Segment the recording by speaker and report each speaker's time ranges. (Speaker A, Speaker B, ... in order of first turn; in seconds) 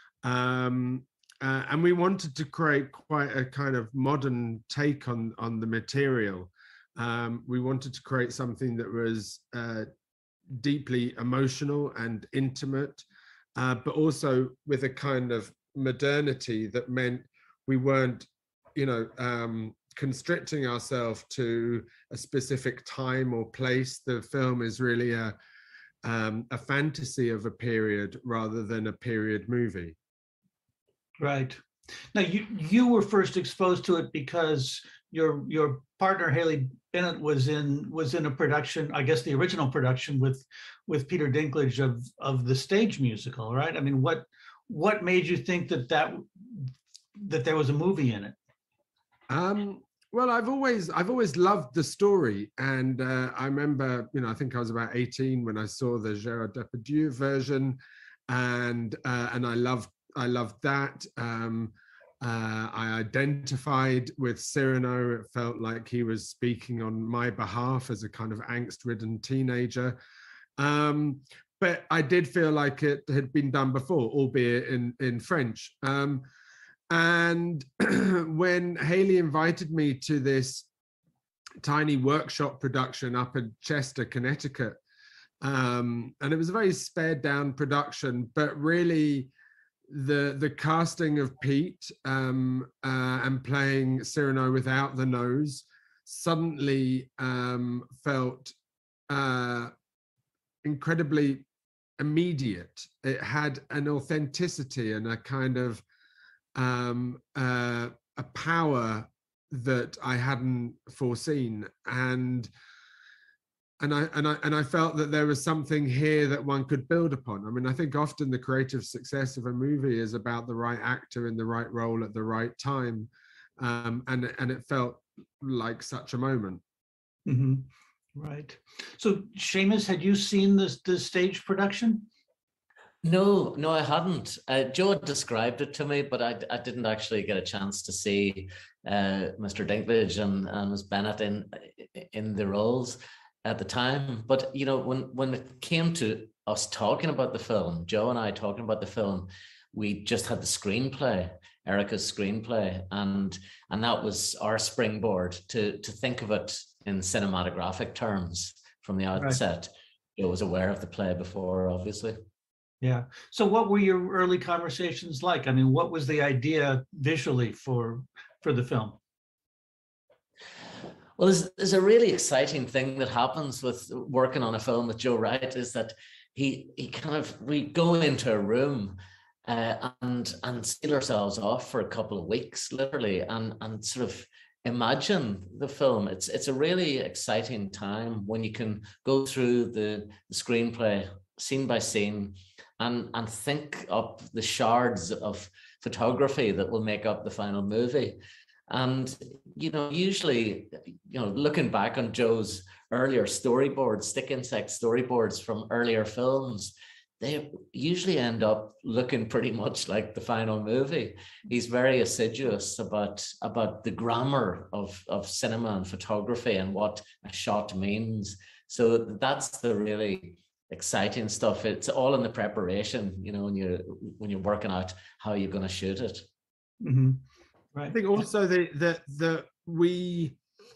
Speaker A: 0.2-9.9, 10.5-13.1, 13.6-25.4, 26.0-30.0, 49.3-70.0, 70.6-76.2, 76.9-80.7, 81.6-84.8, 85.4-89.3, 89.9-98.5, 99.1-99.7, 100.6-101.5, 102.0-105.8, 106.5-112.5, 113.8-126.6, 227.9-230.4
Speaker B: 31.2-31.6, 32.1-48.4, 127.3-132.1, 162.8-169.0, 226.8-227.2, 227.8-228.0
Speaker C: 133.0-162.2, 171.2-198.2, 198.7-226.2